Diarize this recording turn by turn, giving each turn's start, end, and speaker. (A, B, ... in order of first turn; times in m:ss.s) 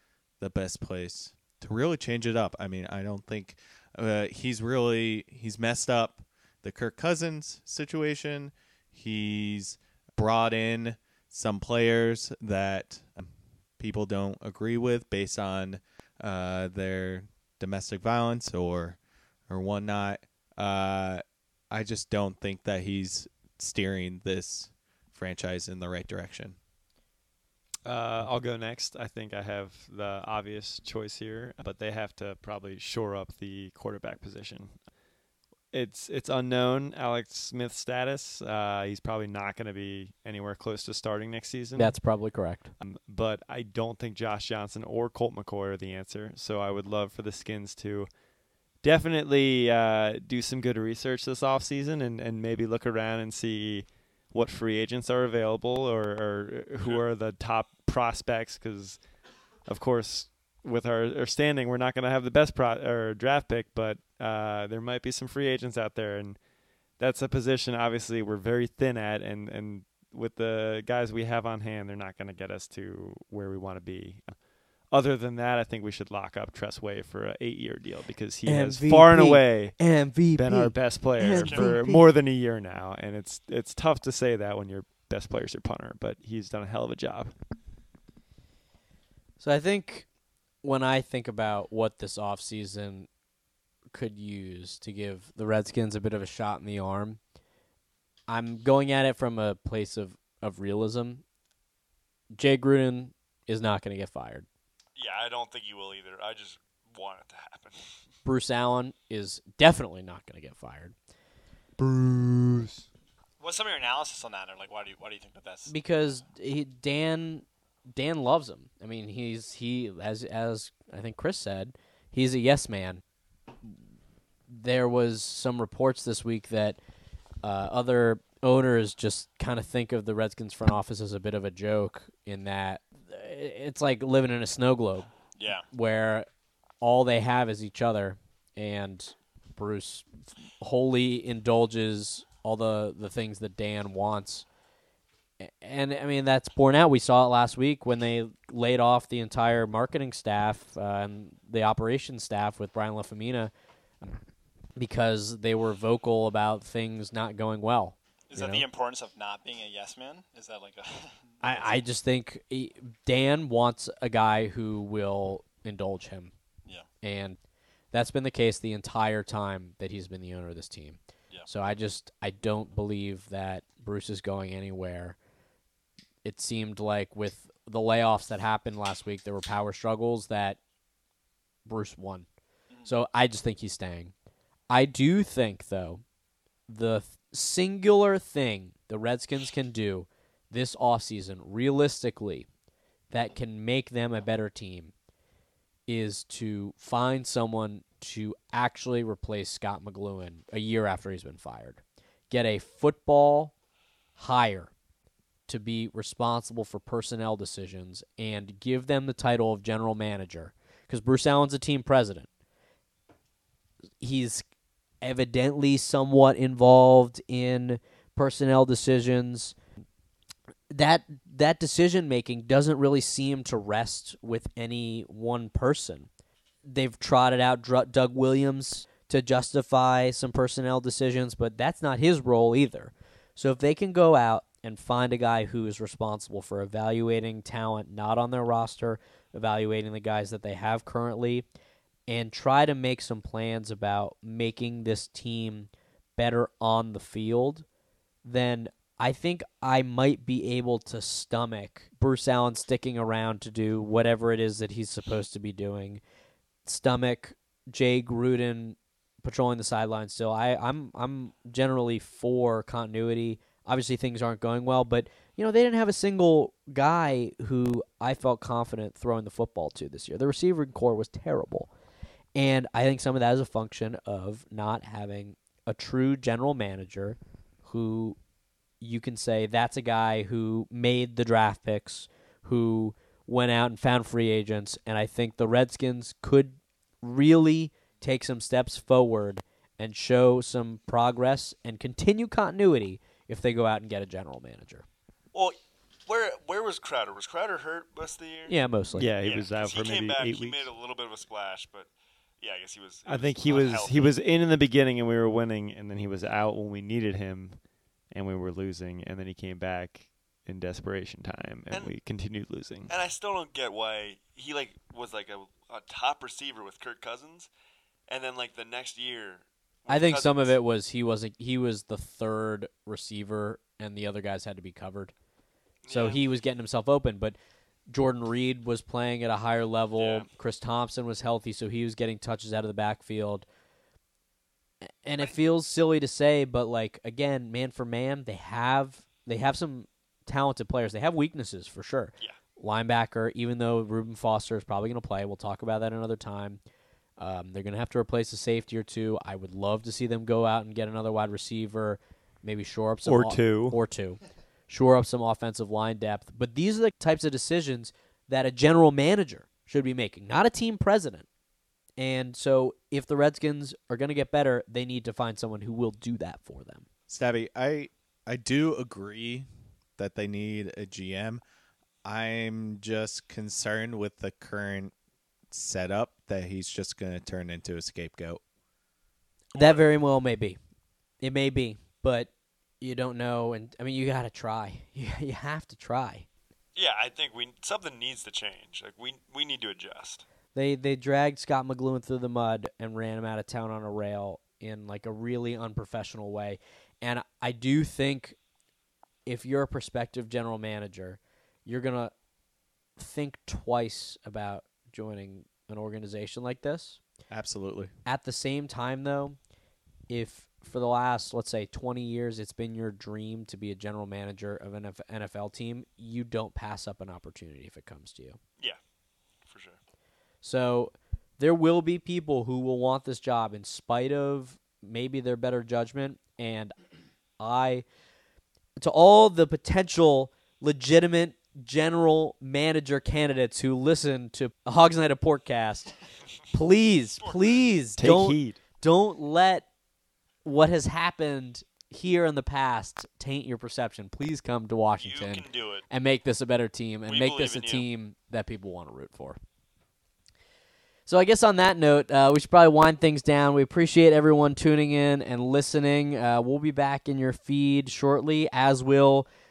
0:00.4-0:26.6 A
0:27.8-0:34.8 B
0:35.7-0:42.0 B
0:41.7-0:42.7 C
0:42.8-0:48.1 B
0:48.8-0:59.0 B
0:59.7-1:06.4 B
1:07.0-1:27.3 B
1:18.4-1:22.0 C
1:21.3-1:21.7 D
1:29.4-1:30.1 C
1:30.6-1:33.1 C
1:33.9-1:37.2 C
1:38.3-1:41.2 C
1:42.3-1:44.4 C
1:45.0-1:47.8 E
1:48.2-1:50.9 C
1:51.8-1:52.7 C
1:53.4-1:55.7 D
1:55.7-2:03.0 C
2:04.5-2:06.8 C
2:07.4-2:15.1 C
2:15.4-2:15.7 D
2:15.7-2:16.3 C
2:16.8-2:24.4 C
2:25.4-2:33.5 C
2:34.8-2:38.6 C
2:38.3-2:41.8 D
2:41.4-2:46.3 C
2:47.0-2:47.4 C
2:47.9-2:55.2 C
2:56.2-3:00.6 C
3:01.6-3:02.3 C
3:02.7-3:02.9 D
3:02.8-3:04.1 C
3:04.7-3:06.0 C
3:06.7-3:12.5 C
3:13.1-3:14.9 C
3:15.9-3:23.5 C
3:24.2-3:24.7 C
3:25.5-3:32.3 C
3:34.0-3:34.5 C
3:35.0-3:39.6 C
3:40.7-3:46.1 C
3:46.6-4:01.4 C
4:02.1-4:07.6 C
4:08.2-4:16.0 C
4:16.6-4:31.7 C
4:32.4-4:38.2 C
4:38.8-4:54.8 C
4:55.3-4:58.5 E
4:58.5-4:59.1 C
4:59.0-5:00.7 B
4:59.2-5:01.9 E
5:02.4-5:04.1 E
5:03.0-5:12.9 B
5:12.9-5:17.5 E
5:18.1-5:20.5 E
5:19.9-5:25.1 C
5:25.8-5:26.2 E
5:25.9-5:27.4 C
5:27.9-5:33.4 C
5:30.0-5:30.3 E
5:35.0-5:46.6 C
5:47.2-6:01.3 C
5:53.0-5:53.8 B
6:02.0-6:06.8 C
6:07.1-6:09.5 A
6:10.0-6:11.4 A
6:12.0-6:14.9 A
6:15.5-6:18.4 A
6:19.5-6:19.8 E
6:19.5-6:20.6 C
6:21.2-6:22.3 C
6:22.8-6:26.3 C
6:26.7-6:30.2 E
6:30.5-6:38.4 C
6:39.2-6:42.1 C
6:43.0-6:47.0 C
6:47.3-6:47.9 A
6:48.0-6:49.4 C
6:50.1-6:58.4 C
6:59.4-6:59.8 E
7:00.4-7:06.7 C
7:07.4-7:07.8 C
7:08.8-7:15.9 C
7:16.5-7:19.7 C
7:17.2-7:17.6 E
7:18.0-7:18.6 B
7:20.4-7:29.4 C
7:25.0-7:25.8 E
7:27.1-7:27.8 E
7:31.1-7:39.3 C